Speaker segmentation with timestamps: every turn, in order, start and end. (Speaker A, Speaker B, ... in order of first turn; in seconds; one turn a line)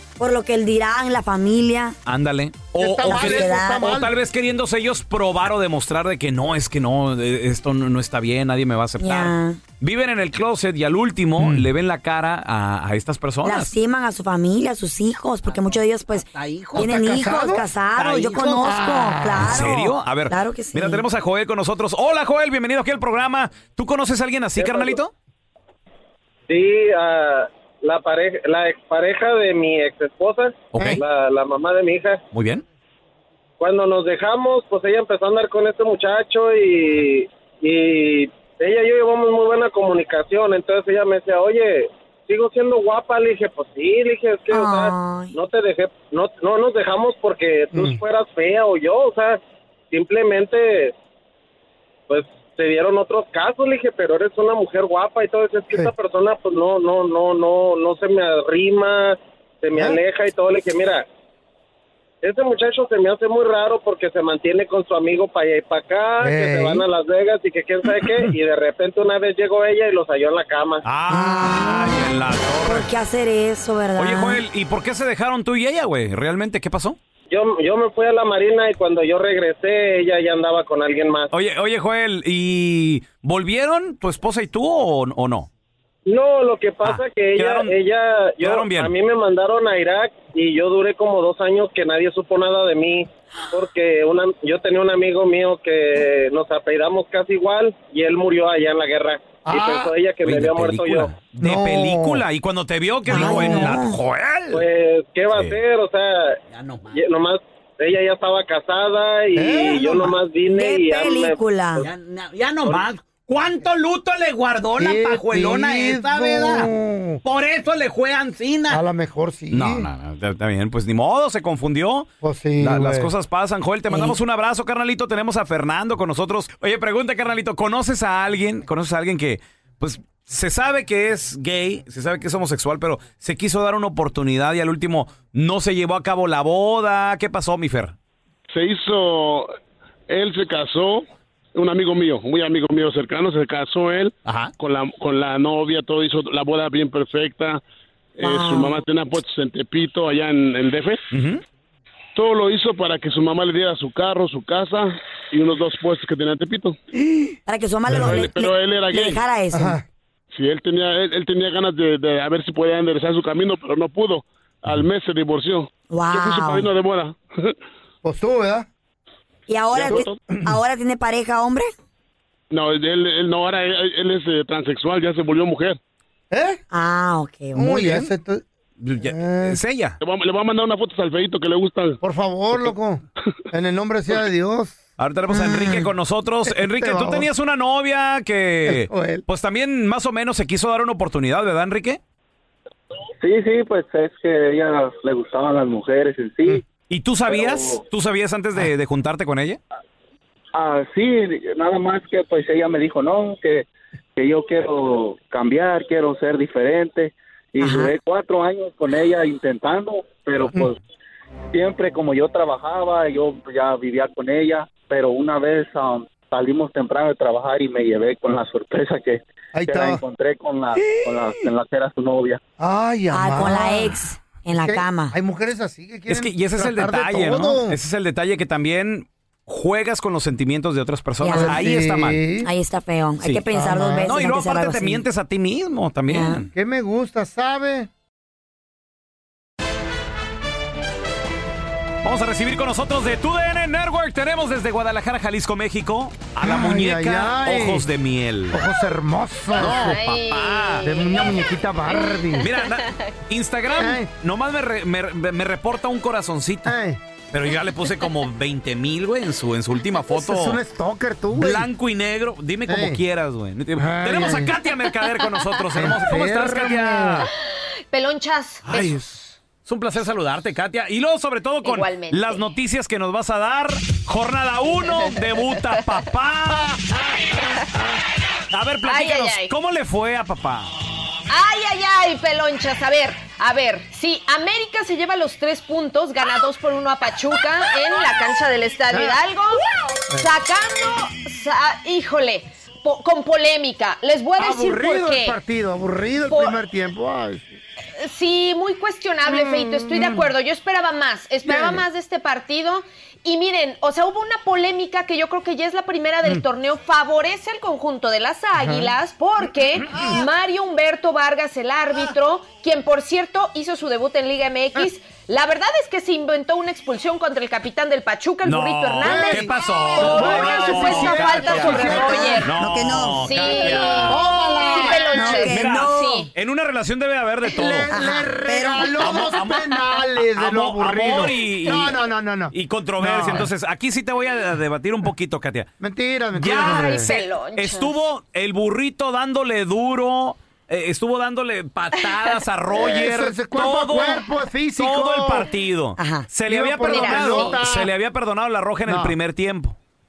Speaker A: 0.2-2.0
Speaker B: 2.1-13.7
Speaker C: 2.8-4.1
Speaker A: 3.0-4.0
Speaker A: 9.0-9.6
Speaker C: 11.4-11.7
Speaker A: 13.4-21.0
Speaker D: 15.4-17.2
Speaker C: 16.7-19.6
Speaker D: 18.0-18.8
Speaker B: 19.4-25.1
Speaker E: 24.6-25.0
Speaker E: 26.5-32.2
Speaker B: 30.7-31.0
Speaker B: 32.3-32.6
Speaker E: 33.6-49.4
Speaker A: 44.5-45.4
Speaker C: 47.7-48.0
Speaker E: 49.9-51.0
Speaker E: 52.1-61.0
Speaker E: 62.2-70.8
Speaker C: 66.2-66.8
Speaker B: 70.8-72.9
Speaker A: 71.1-74.4
Speaker B: 74.0-77.0
Speaker E: 77.3-81.3
Speaker B: 81.3-85.5
Speaker E: 86.1-101.1
Speaker B: 86.8-87.7
Speaker B: 88.4-88.9
Speaker C: 99.5-99.9
Speaker B: 100.2-104.5
Speaker C: 101.4-102.2
Speaker A: 103.1-104.0
Speaker C: 103.1-103.8
Speaker E: 104.5-106.4
Speaker B: 105.3-105.6
Speaker D: 106.5-107.0
Speaker E: 106.9-111.4
Speaker C: 109.3-110.2
Speaker A: 110.5-111.9
Speaker D: 111.8-116.7
Speaker C: 114.8-117.2
Speaker D: 117.2-118.8
Speaker C: 118.7-119.9
Speaker B: 119.5-122.1
Speaker C: 122.2-123.1
Speaker B: 122.6-138.0
Speaker A: 123.9-124.2
Speaker F: 138.5-139.5
Speaker F: 140.1-147.6
Speaker F: 148.2-151.0
Speaker A: 148.2-148.8
Speaker B: 151.1-151.4
Speaker F: 152.2-156.8
Speaker A: 157.5-159.8
Speaker F: 157.9-159.2
Speaker C: 159.5-159.8
Speaker F: 160.3-167.6
Speaker A: 165.9-166.7
Speaker C: 168.0-168.7
Speaker A: 169.5-171.7
Speaker F: 169.8-170.2
Speaker C: 169.9-170.5
Speaker F: 172.5-175.8
Speaker C: 176.3-176.6
Speaker A: 176.7-178.1
Speaker C: 177.5-178.4
Speaker B: 178.8-180.0
Speaker C: 179.0-179.6
Speaker F: 180.0-182.0
Speaker C: 182.0-184.8
Speaker B: 185.0-192.0
Speaker A: 185.3-185.9
Speaker C: 186.5-187.3
Speaker C: 188.7-189.2
Speaker G: 193.2-196.6
Speaker B: 196.9-199.6
Speaker A: 207.6-207.9
Speaker G: 210.2-210.5
Speaker G: 214.7-214.9
Speaker G: 216.3-216.6
Speaker G: 218.3-219.0
Speaker C: 219.5-220.0
Speaker G: 219.8-222.3
Speaker C: 222.6-224.0
Speaker A: 223.1-225.2
Speaker C: 224.5-227.8
Speaker B: 226.1-232.2
Speaker A: 231.2-231.6
Speaker C: 231.3-232.5
Speaker A: 232.4-235.0
Speaker C: 233.5-234.1
Speaker B: 234.0-236.5
Speaker A: 236.1-236.4
Speaker C: 236.5-237.9
Speaker B: 242.0-248.6
Speaker C: 246.4-247.9
Speaker C: 248.5-250.0
Speaker B: 249.6-251.1
Speaker H: 249.6-253.1
Speaker C: 250.8-252.5
Speaker B: 252.4-256.8
Speaker C: 253.8-254.1
Speaker C: 256.6-257.0
Speaker B: 257.3-260.6
Speaker C: 260.1-261.7
Speaker B: 261.4-267.3
Speaker C: 262.7-263.0
Speaker C: 263.8-264.6
Speaker C: 265.7-267.3
Speaker H: 267.9-269.4
Speaker B: 268.7-269.0
Speaker B: 269.6-276.9
Speaker H: 271.6-272.4
Speaker H: 274.9-275.8
Speaker B: 278.5-280.7
Speaker H: 278.8-279.5
Speaker H: 281.3-289.6
Speaker H: 290.1-295.4
Speaker C: 294.4-297.6
Speaker H: 296.3-296.6
Speaker H: 298.0-322.5
Speaker C: 299.3-300.3
Speaker C: 301.4-301.8
Speaker C: 308.6-308.9
Speaker B: 318.4-324.2
Speaker C: 319.0-322.5
Speaker A: 321.9-323.5
Speaker H: 323.2-326.3
Speaker C: 324.1-325.5
Speaker A: 324.1-326.3
Speaker B: 325.4-327.9
Speaker C: 327.6-333.5
Speaker A: 327.9-329.2
Speaker B: 329.0-329.7
Speaker B: 330.4-332.0
Speaker B: 332.5-335.7
Speaker C: 335.8-337.1
Speaker B: 336.3-349.8
Speaker H: 336.5-338.0
Speaker H: 342.0-342.3
Speaker C: 342.7-345.5
Speaker A: 346.0-346.3
Speaker C: 346.5-347.9
Speaker H: 346.8-347.6
Speaker C: 348.9-349.1